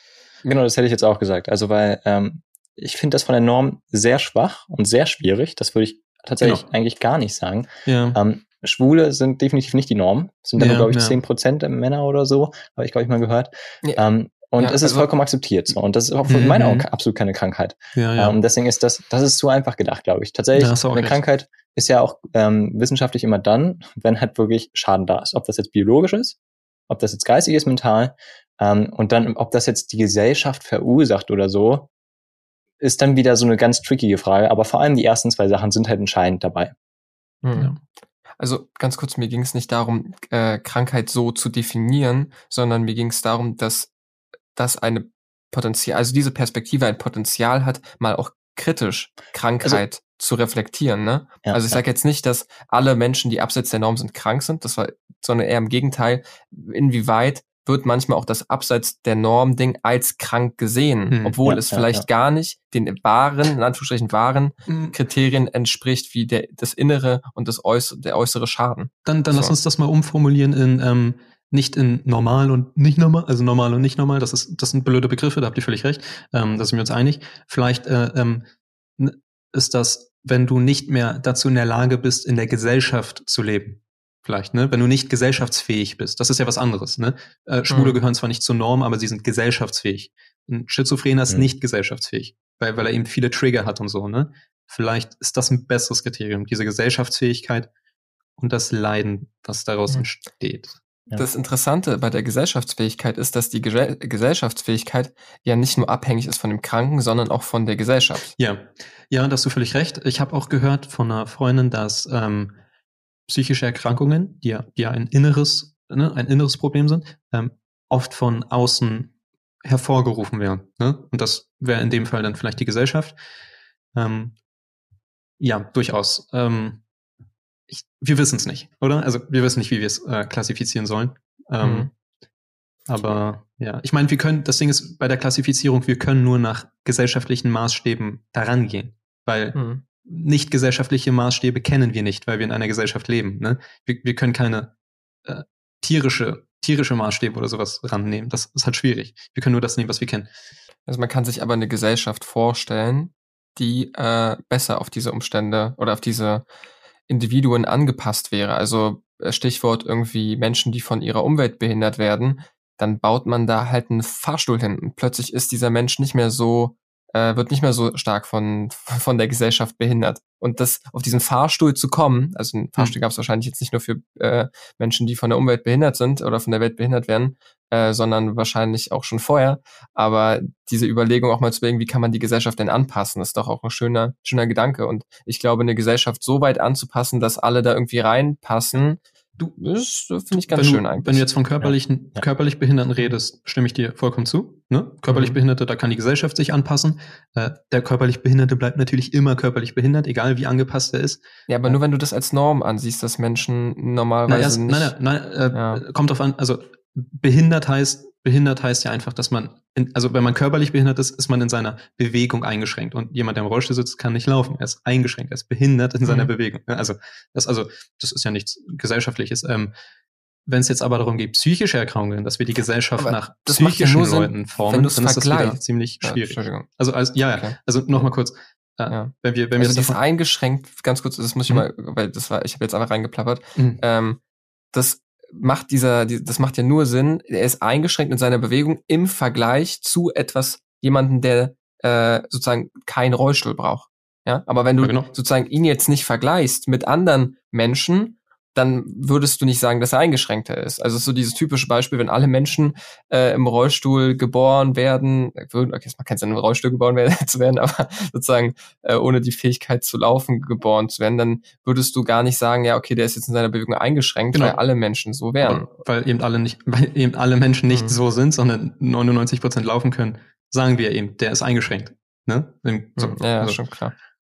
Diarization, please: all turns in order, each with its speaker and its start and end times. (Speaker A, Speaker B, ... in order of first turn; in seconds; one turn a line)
Speaker A: 0.4-26.4
Speaker B: 6.4-6.7
Speaker B: 7.8-8.2
Speaker B: 10.6-11.2
Speaker C: 14.6-15.1
Speaker B: 16.3-16.9
Speaker B: 17.9-18.4
Speaker B: 20.6-21.2
Speaker A: 26.9-31.9
Speaker A: 32.8-36.7
Speaker C: 37.4-37.7
Speaker C: 38.4-43.9
Speaker C: 44.5-69.5
Speaker A: 51.4-51.8
Speaker B: 61.1-61.4
Speaker A: 61.4-62.0
Speaker B: 64.7-65.0
Speaker B: 69.0-78.4
Speaker B: 79.0-97.7
Speaker C: 87.7-88.0
Speaker B: 98.4-100.8
Speaker C: 101.2-108.3
Speaker B: 108.4-112.5
Speaker B: 113.3-119.1
Speaker B: 119.6-123.2
Speaker B: 123.9-124.3
Speaker B: 125.4-126.8
Speaker B: 127.7-131.9
Speaker C: 131.6-131.9
Speaker B: 132.9-144.7
Speaker C: 139.5-139.8
Speaker B: 145.2-150.3
Speaker C: 150.9-156.4
Speaker C: 157.1-191.3
Speaker B: 190.3-201.2
Speaker C: 195.1-195.4
Speaker C: 201.5-204.9
Speaker B: 204.3-219.7
Speaker C: 205.5-205.8
Speaker C: 216.1-216.3
Speaker B: 220.5-230.0
Speaker C: 223.0-226.7
Speaker C: 227.3-228.1
Speaker C: 228.9-234.2
Speaker B: 233.6-233.8
Speaker C: 234.7-265.7
Speaker B: 244.8-245.1
Speaker B: 264.3-264.6
Speaker B: 265.4-273.6
Speaker C: 267.7-268.0
Speaker C: 273.0-273.9